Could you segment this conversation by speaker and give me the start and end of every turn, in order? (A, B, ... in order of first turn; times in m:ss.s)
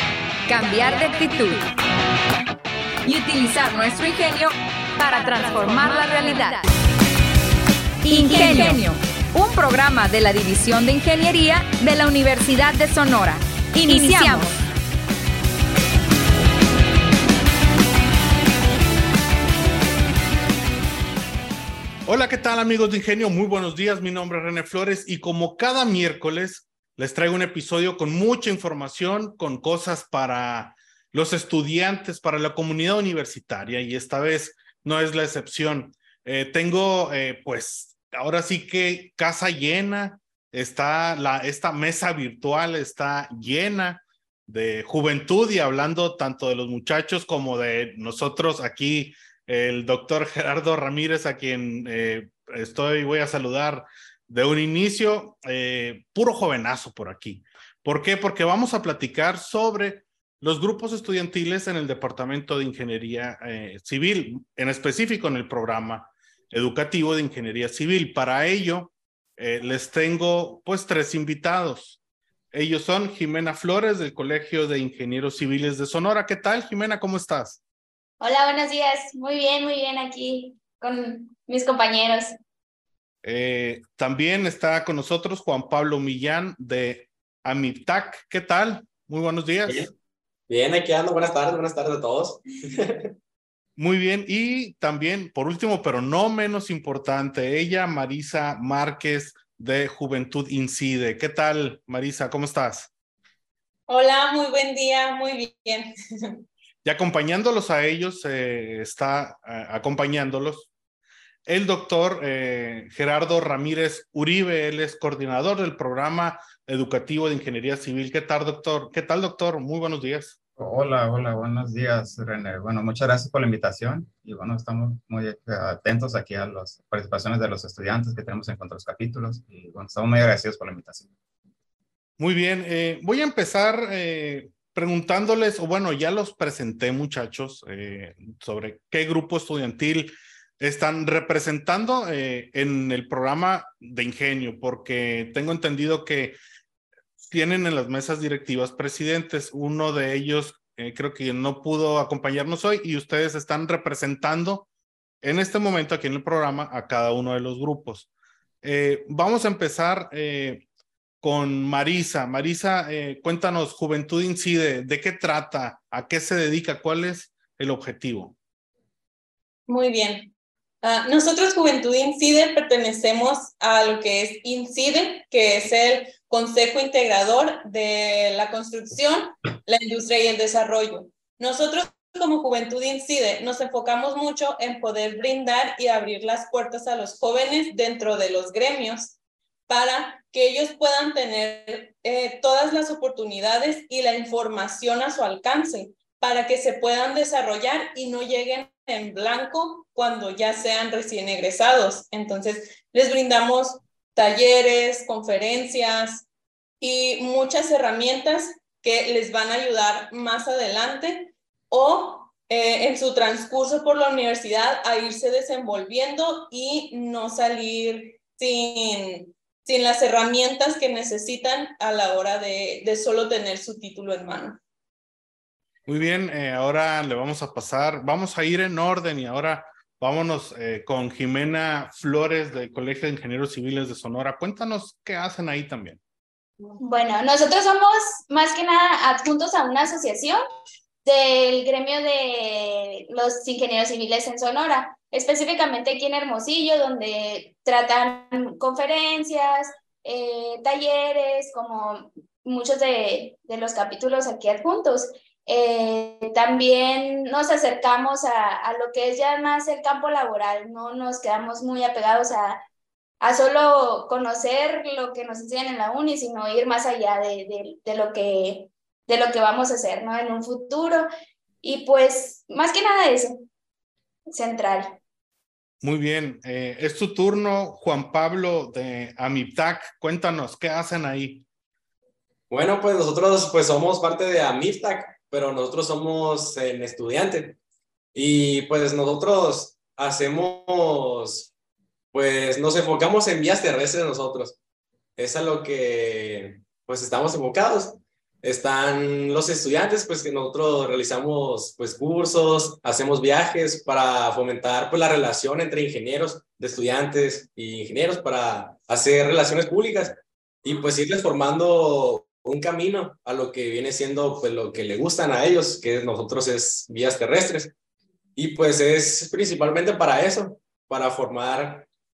0:00.5-0:01.7 A
0:03.0-0:06.6 A
0:08.0-0:14.6 A
0:22.0-1:12.0 B
1:12.5-1:17.6 B
1:18.2-1:22.3 C
1:23.2-1:29.9 B
1:30.5-1:33.1 D
1:33.8-1:42.9 B
1:43.9-1:46.4 E
1:46.8-1:50.7 B
1:51.4-2:00.4 B
2:00.6-2:11.1 F
2:12.2-2:26.4 B
2:27.3-2:34.7 B
2:35.2-2:38.1 B
2:38.6-2:40.6 B
2:41.2-2:48.3 B
2:49.7-2:50.3 E
2:50.8-3:09.2 E
3:09.7-3:26.2 E
3:26.8-3:44.6 E
3:45.9-3:56.0 B
3:56.8-4:00.4 C
4:01.0-4:22.6 C
4:23.2-4:31.1 C
4:31.6-4:33.4 C
4:34.3-4:35.0 C
4:35.8-4:41.4 B
4:42.5-4:47.6 D
4:48.1-4:51.5 D
4:52.1-4:54.6 D
4:55.2-5:17.7 D
5:18.4-5:21.9 D